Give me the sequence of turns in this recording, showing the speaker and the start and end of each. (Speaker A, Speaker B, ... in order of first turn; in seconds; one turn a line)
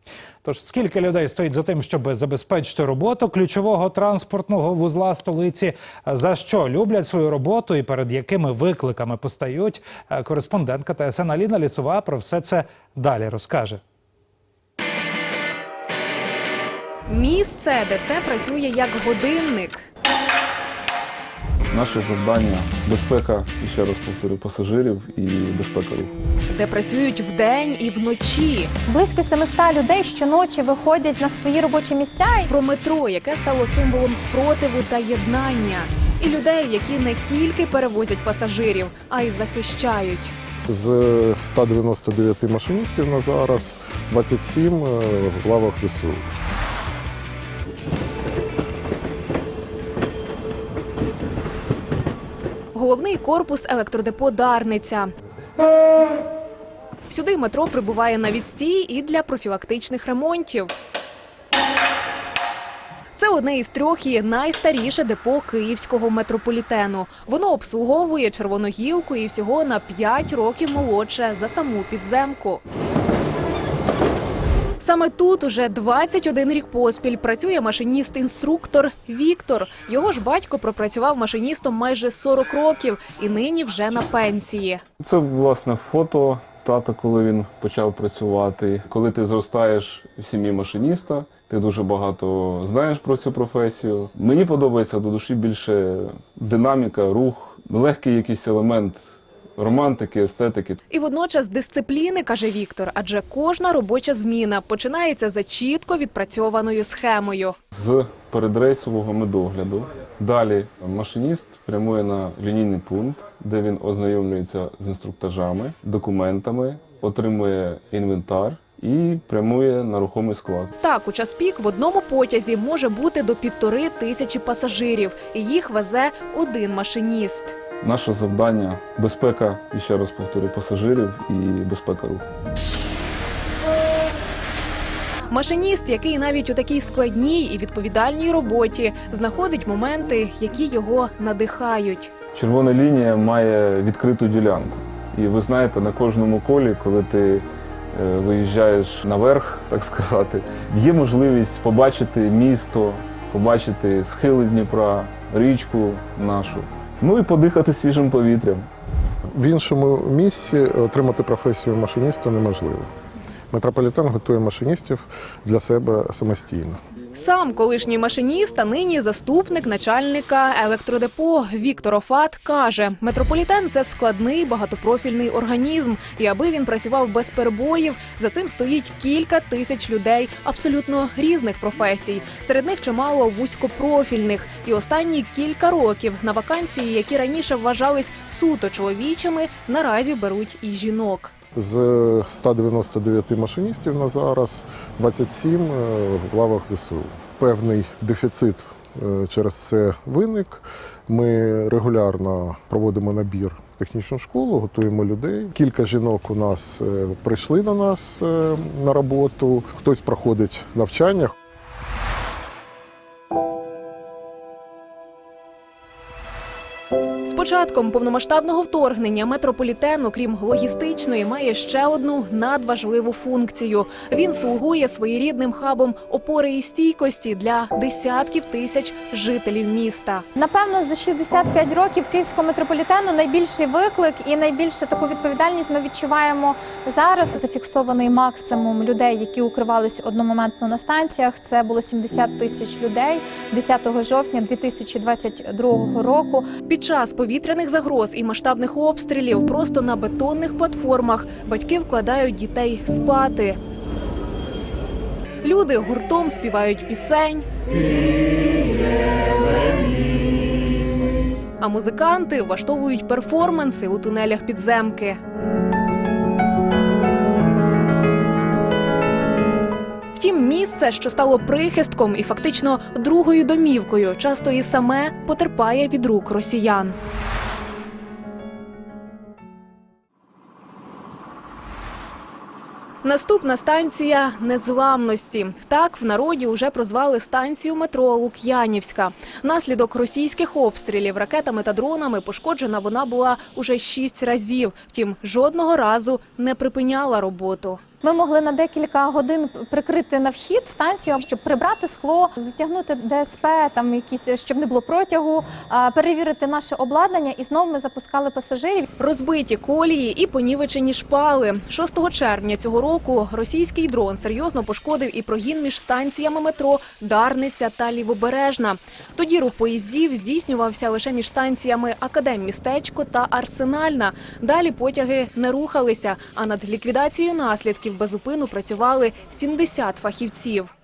Speaker A: 0.4-13.8
Speaker B: 17.1-19.8
Speaker C: 21.7-26.1
Speaker B: 26.5-28.7
Speaker D: 28.9-32.5
Speaker B: 32.5-40.3
Speaker E: 40.7-46.3
Speaker B: 52.7-55.1
Speaker B: 57.1-60.7
Speaker B: 63.1-72.6
Speaker B: 74.8-84.8
Speaker C: 85.0-99.0
Speaker C: 99.6-100.8
Speaker B: 100.9-107.5
Speaker C: 107.7-120.7
Speaker B: 120.8-127.5
Speaker C: 127.8-132.2
Speaker B: 135.3-142.1
Speaker C: 142.3-158.7
Speaker E: 159.3-162.9
Speaker E: 163.5-166.8
Speaker B: 167.1-191.3
Speaker E: 191.5-211.3
Speaker B: 217.2-230.2
Speaker D: 230.3-246.5
Speaker B: 246.7-253.6
Speaker B: 255.4-257.5
Speaker B: 261.6-265.2
Speaker B: 270.2-277.0
Speaker B: 283.0-297.8
Speaker D: 298.0-308.9
Speaker B: 309.0-330.7